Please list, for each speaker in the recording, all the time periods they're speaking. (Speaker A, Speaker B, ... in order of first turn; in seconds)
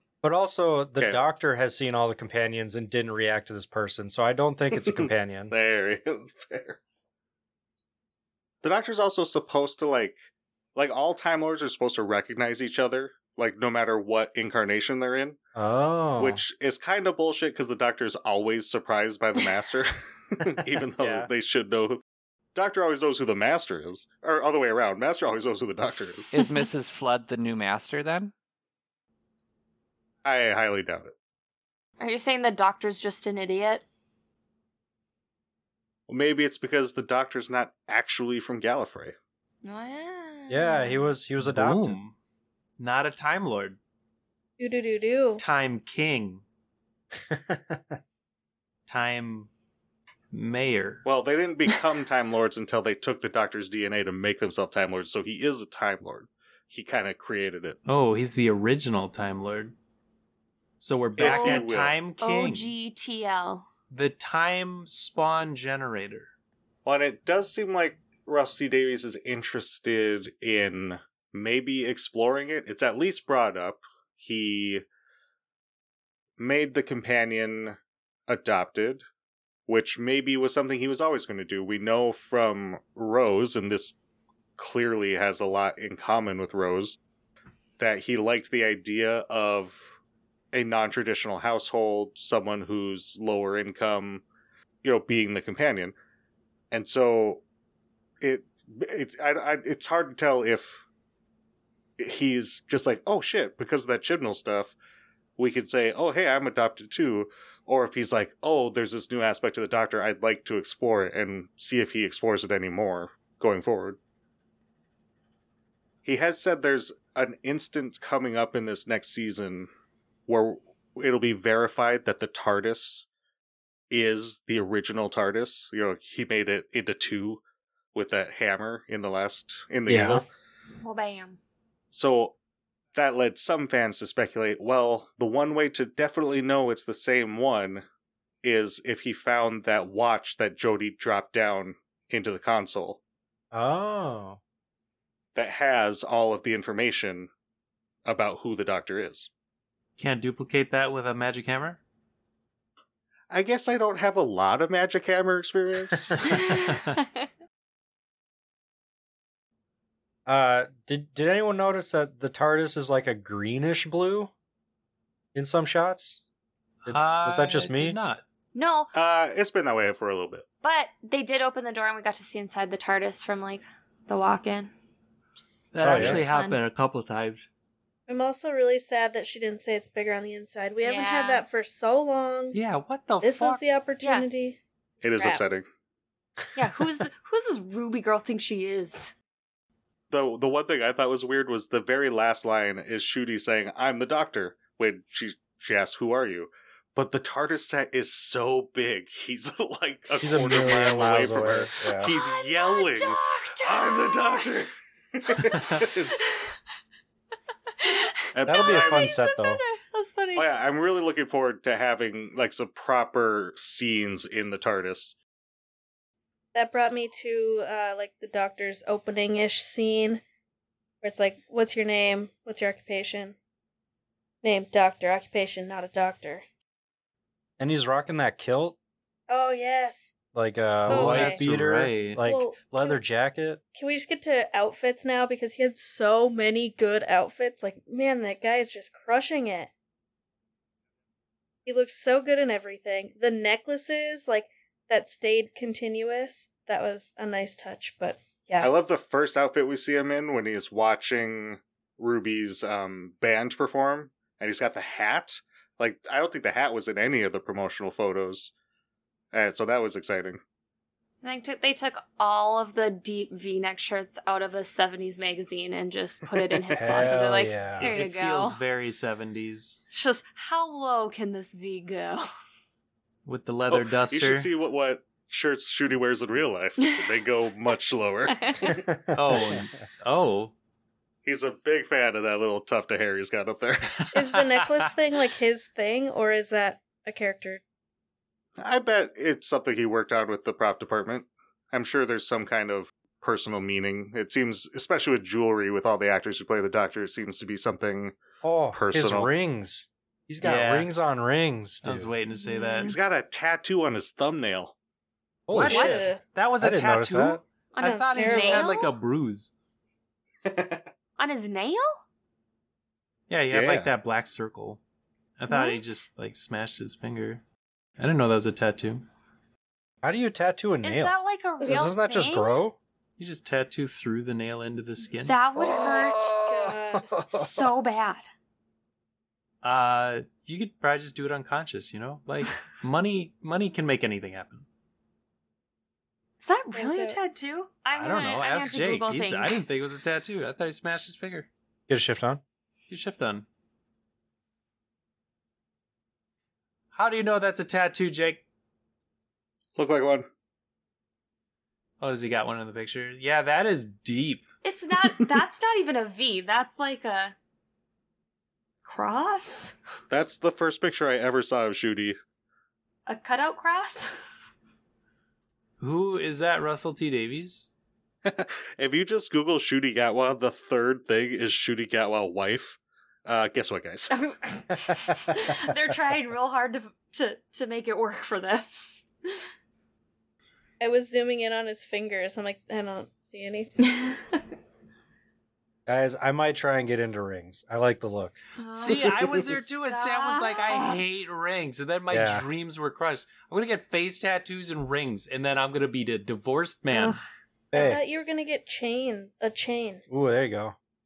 Speaker A: 0.2-5.5, 15.6-16.4, 20.5-21.3, 40.5-42.0, 47.3-48.0, 129.9-130.2, 143.5-144.4, 155.9-156.3, 160.3-164.3, 165.3-166.2, 166.9-168.0, 175.8-176.2, 200.2-202.1, 208.5-209.6, 227.6-228.8, 230.3-233.6, 266.8-267.9, 278.7-279.7, 298.4-302.1, 305.5-307.4, 320.0-321.1, 321.6-322.8, 325.6-327.7, 341.9-342.4, 385.9-388.4, 392.1-392.4, 397.7-398.1, 400.1-400.8
Speaker B: 4.8-6.8, 8.6-10.2, 10.7-15.4, 16.2-22.0, 22.5-26.3, 30.2-31.1, 36.1-39.1, 51.0-57.8, 61.1-61.9, 66.8-74.8, 76.4-79.0, 79.7-84.0, 84.6-87.0, 87.8-89.9, 90.5-94.2, 94.8-95.9, 96.7-97.4, 98.2-100.8, 102.0-104.8, 105.4-114.0, 116.0-119.7, 120.3-123.0, 123.9-127.4, 127.9-130.3, 131.9-132.3, 132.9-137.8, 138.4-143.0, 145.3-147.3, 148.0-149.3, 153.3-156.7, 168.9-170.4, 185.0-185.6, 190.1-206.3, 208.3-209.1, 210.3-215.2, 248.6-258.5, 259.3-260.4, 266.5-267.2, 273.7-278.9, 281.2-284.0, 288.6-298.2, 298.7-299.3, 302.8-304.7, 310.4-310.9, 313.5-313.9, 349.8-350.3, 360.1-362.2, 368.2-374.3
Speaker C: 26.3-28.3
Speaker D: 26.4-26.6, 32.0-33.8, 39.6-41.1, 61.2-61.7, 62.2-63.6, 130.8-131.4, 156.3-157.1, 168.5-168.9, 170.6-174.7, 175.8-176.6, 180.8-181.4, 184.0-184.3, 186.5-189.1, 202.0-204.5, 206.1-206.5, 207.8-210.5, 261.2-268.6, 269.9-272.3, 278.3-278.8, 302.4-302.9, 305.7-306.1, 307.7-308.9, 311.2-312.0, 315.5-316.0, 320.8-322.6, 325.2-326.3, 327.3-328.2, 336.4-339.6, 354.6-357.3, 358.8-359.8, 363.1-364.2, 374.1-379.4, 383.9-384.1, 388.6-391.0, 396.9-397.2
Speaker E: 41.4-42.1, 42.8-43.8, 45.4-46.4, 48.9-49.5, 50.3-51.0, 57.9-59.7, 60.8-62.7, 63.9-66.3, 150.0-151.8, 166.8-168.2, 175.7-177.5, 182.5-183.6, 230.9-232.2, 267.8-269.8, 273.2-274.5, 279.1-280.5, 283.9-284.9, 300.4-300.9, 301.8-302.9, 305.5-309.5, 313.3-314.8, 315.4-317.4, 318.0-319.0, 323.2-325.4, 329.6-334.6, 337.9-341.5, 342.9-343.4, 346.9-348.4, 352.0-354.4, 365.8-367.7, 388.7-397.2
Speaker F: 44.6-45.4, 178.1-182.6, 183.2-184.6, 216.5-220.2, 221.0-223.3, 224.4-226.4, 229.3-230.2, 230.9-231.4, 232.2-233.0, 233.7-239.7, 241.7-248.7, 284.1-287.6, 305.7-306.2, 307.8-308.8, 325.7-327.1, 336.7-337.2, 380.8-383.7, 397.7-400.0